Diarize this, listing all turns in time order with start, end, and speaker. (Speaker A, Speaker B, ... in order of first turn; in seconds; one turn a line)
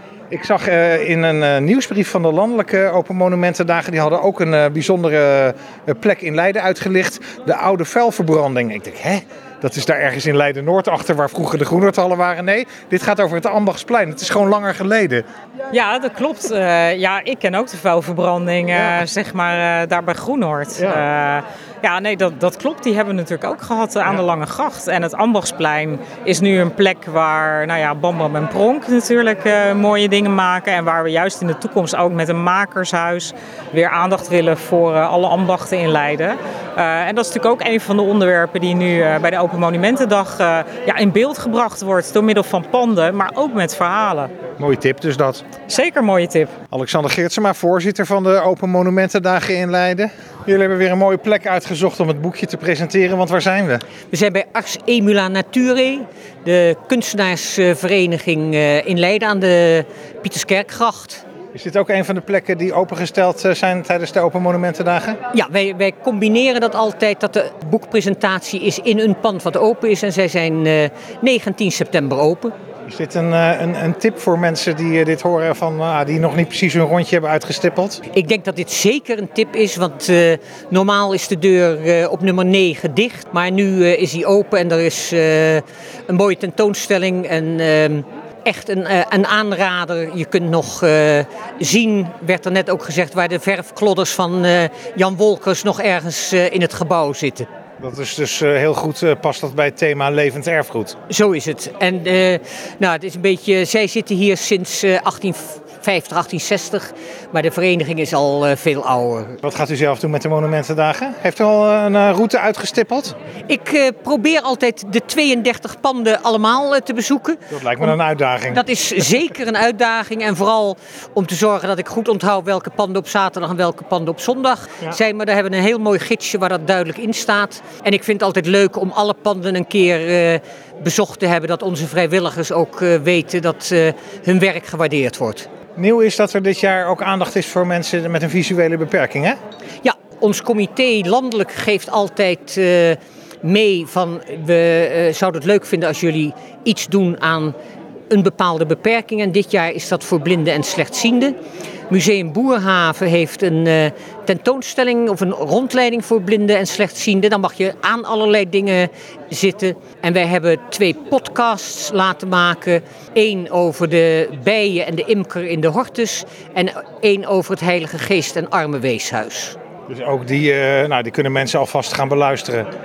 Speaker A: 0.3-15.2
Speaker B: 15.7-44.3
Speaker A: 18.8-19.0
Speaker A: 20.8-21.0
Speaker A: 44.6-45.4
Speaker B: 45.7-46.5
Speaker A: 46.7-53.8
Speaker C: 54.1-61.2
Speaker A: 61.5-65.2
Speaker C: 65.3-72.5
Speaker A: 72.9-78.0
Speaker C: 78.1-97.5
Speaker A: 97.8-101.0
Speaker C: 101.1-109.4
Speaker A: 109.4-113.2
Speaker C: 113.5-118.0
Speaker A: 117.5-118.6
Speaker C: 118.5-135.5
Speaker A: 135.8-139.4
Speaker C: 139.8-147.5
Speaker C: 148.1-151.3
Speaker C: 151.9-169.6
Speaker A: 169.9-172.7